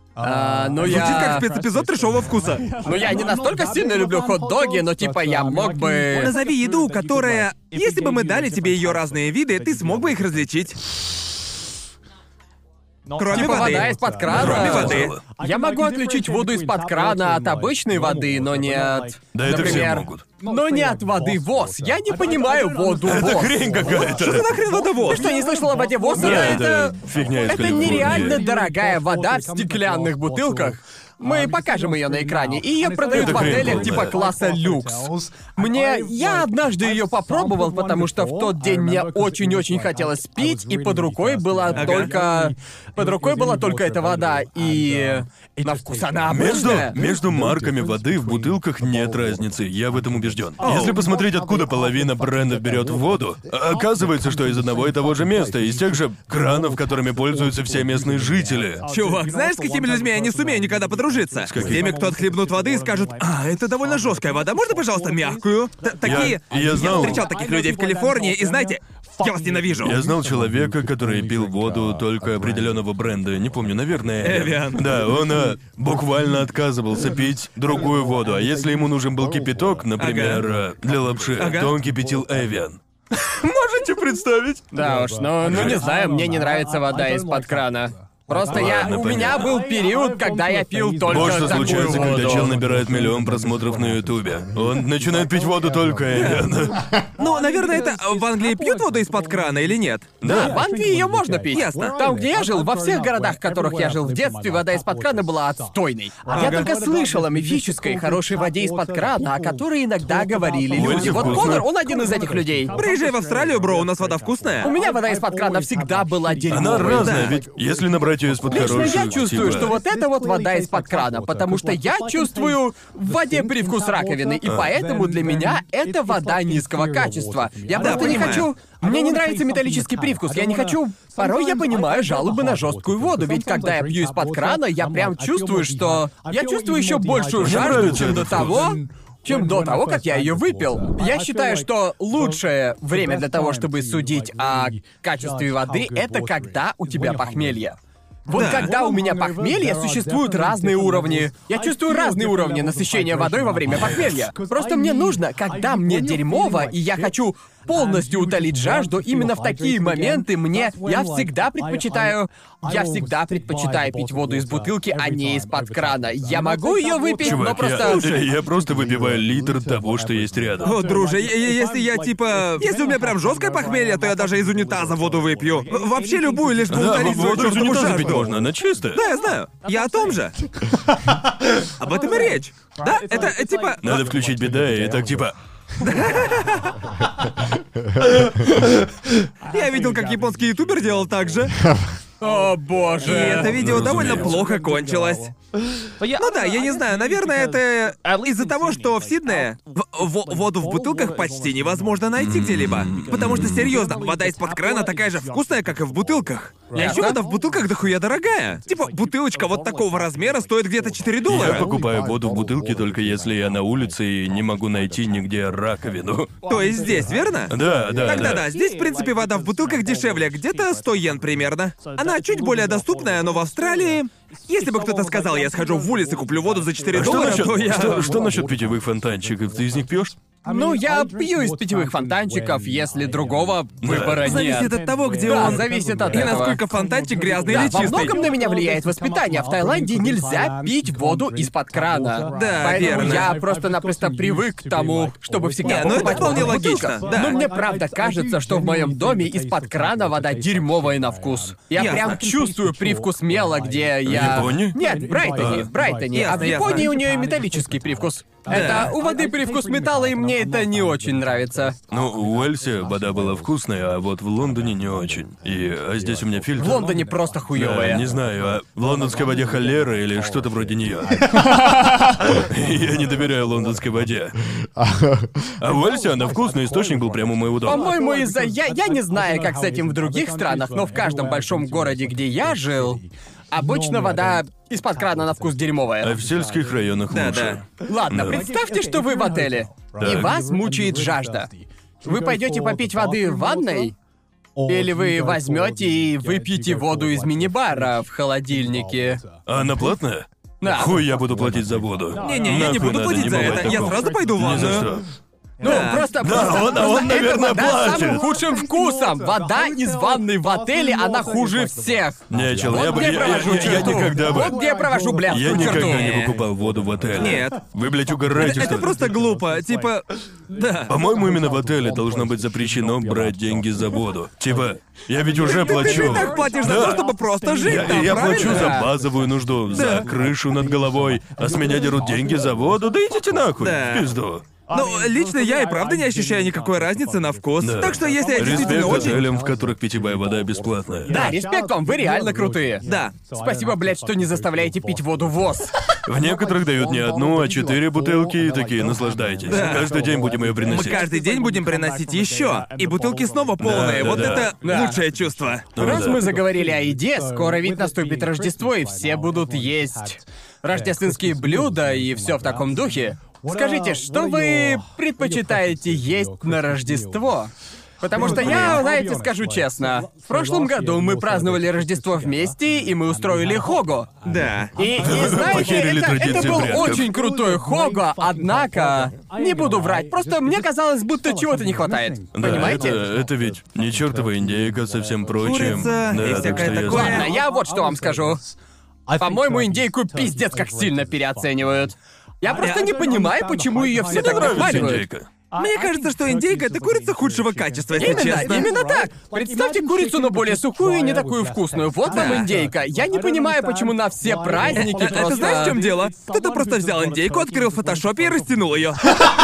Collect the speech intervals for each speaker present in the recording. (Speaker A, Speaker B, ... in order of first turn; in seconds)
Speaker A: 0.2-1.5, 2.8-6.3, 13.3-23.7, 25.1-47.0, 84.7-92.5, 100.2-112.8, 114.6-117.3, 118.5-168.1, 192.2-193.6, 206.7-207.2, 230.4-236.6, 237.5-261.8, 266.6-268.1, 277.6-286.1, 287.8-293.9, 294.6-299.2, 300.6-301.0, 305.6-316.2, 327.9-328.9, 341.1-345.7, 354.6-355.0, 355.8-374.1, 374.8-383.0, 386.8-388.6, 389.1-395.0, 398.0-405.8
Speaker B: 0.8-2.8, 6.1-10.8, 13.2-15.2, 23.8-25.3, 41.7-42.1, 50.6-51.0, 58.9-70.0, 74.2-74.9, 80.0-80.5, 81.4-81.7, 96.1-96.5, 97.2-100.2, 101.5-102.0, 106.3-106.7, 112.7-114.7, 116.9-117.4, 127.7-128.5, 148.3-148.7, 167.7-168.3, 170.6-178.3, 178.9-180.3, 181.8-184.0, 185.8-186.7, 189.5-191.5, 193.0-195.3, 196.0-211.7, 216.5-228.1, 234.1-238.2, 242.3-243.4, 245.6-247.4, 251.8-252.2, 256.1-256.9, 258.5-259.0, 287.1-287.6, 302.2-304.9, 305.6-306.1, 315.7-316.3, 317.1-317.7, 318.4-320.9, 325.4-328.8, 329.7-330.1, 333.6-334.1, 334.7-339.2, 342.8-343.1, 349.5-349.9, 350.6-355.7, 368.1-368.8, 374.2-374.7, 385.4-387.3, 392.6-392.9, 395.5-398.7, 402.1-402.5, 404.8-409.1
Speaker C: 14.2-15.2, 19.3-20.2, 23.0-24.5, 26.1-28.4, 33.1-34.2, 46.3-58.8, 61.5-61.9, 66.0-67.3, 69.8-84.7, 85.4-85.8, 88.5-89.6, 91.0-96.8, 100.2-100.6, 110.7-111.7, 116.5-119.8, 124.4-124.7, 137.4-138.8, 167.2-170.8, 176.7-179.0, 183.8-185.3, 193.5-194.5, 202.2-203.8, 211.2-216.3, 217.5-218.5, 226.9-230.2, 233.8-234.3, 254.0-254.8, 255.3-255.7, 261.9-267.0, 267.5-274.4, 275.6-277.9, 286.0-288.5, 290.0-290.4, 299.5-305.1, 306.2-308.3, 312.3-314.6, 315.3-319.0, 320.9-327.1, 327.6-334.5, 337.6-341.2, 346.1-351.1, 353.6-354.5, 355.8-356.3, 375.0-377.1, 382.3-387.3, 394.0-395.3